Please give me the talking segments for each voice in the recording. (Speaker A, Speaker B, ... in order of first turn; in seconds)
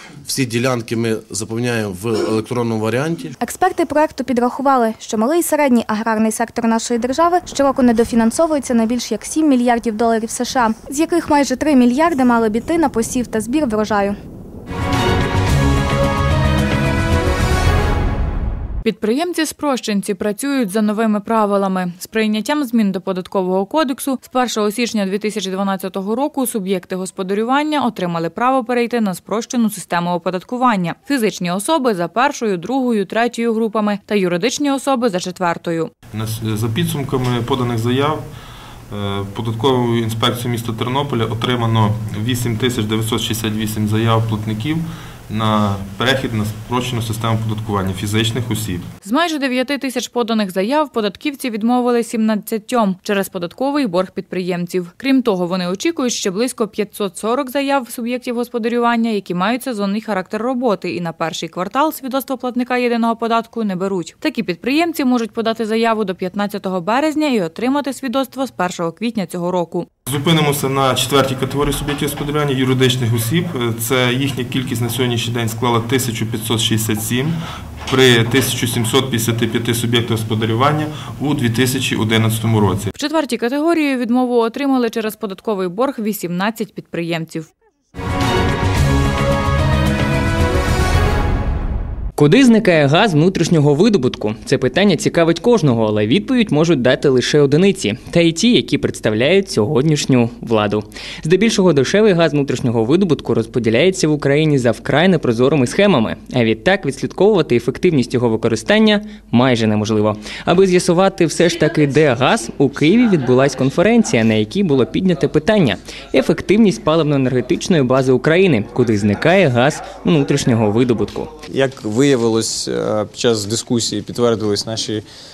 Speaker A: 0.2-3.4
Speaker B: 3.4-14.2
Speaker C: 18.8-35.9, 49.0-69.9, 83.0-87.5
Speaker D: 36.1-38.3, 38.9-48.9, 70.1-82.9
Speaker E: 92.2-121.3
Speaker F: 121.6-125.0